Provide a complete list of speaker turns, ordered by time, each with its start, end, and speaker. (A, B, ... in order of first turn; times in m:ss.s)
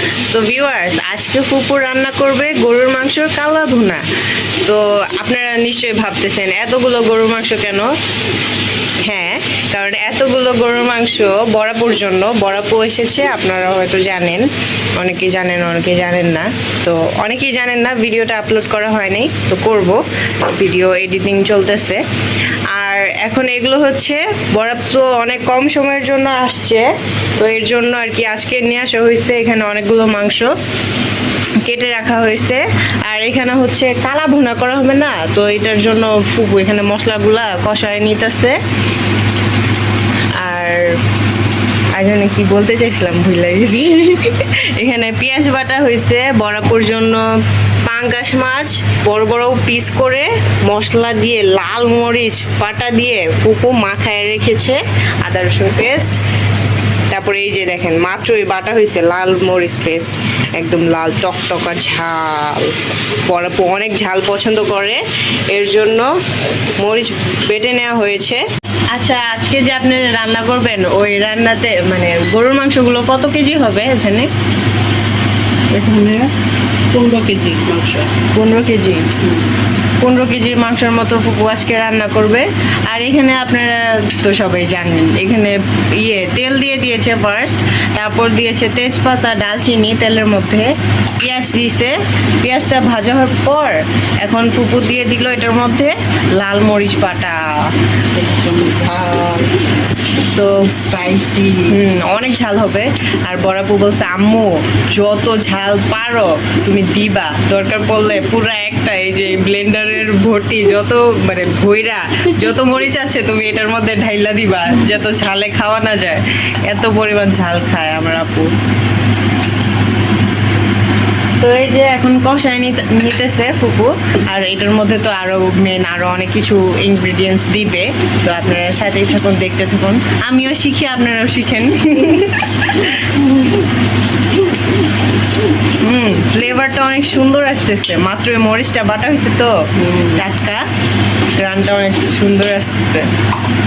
0:00.2-0:04.0 A
0:04.6-0:07.9 A
0:09.0-0:14.4 A
0:15.0-0:22.0 A
0:22.7-0:30.5 A
0:31.6-0:38.6 A
0:40.4-0:41.0 A
0:41.9-0:47.2 A
0:47.8-0:56.2 A
0:57.1-1:02.7 A
1:03.2-1:06.1 A
1:06.8-1:14.3 A
1:15.7-1:16.2 B
1:16.9-1:18.1 B
1:18.3-1:19.1 A
1:19.2-1:19.5 B
1:20.0-1:37.7 A
1:38.1-1:39.5 B
1:40.4-1:41.7 B
1:41.7-1:58.5 A
2:01.4-2:13.5 A
2:15.8-2:20.6 A
2:19.8-2:20.1 B
2:21.4-2:23.1 A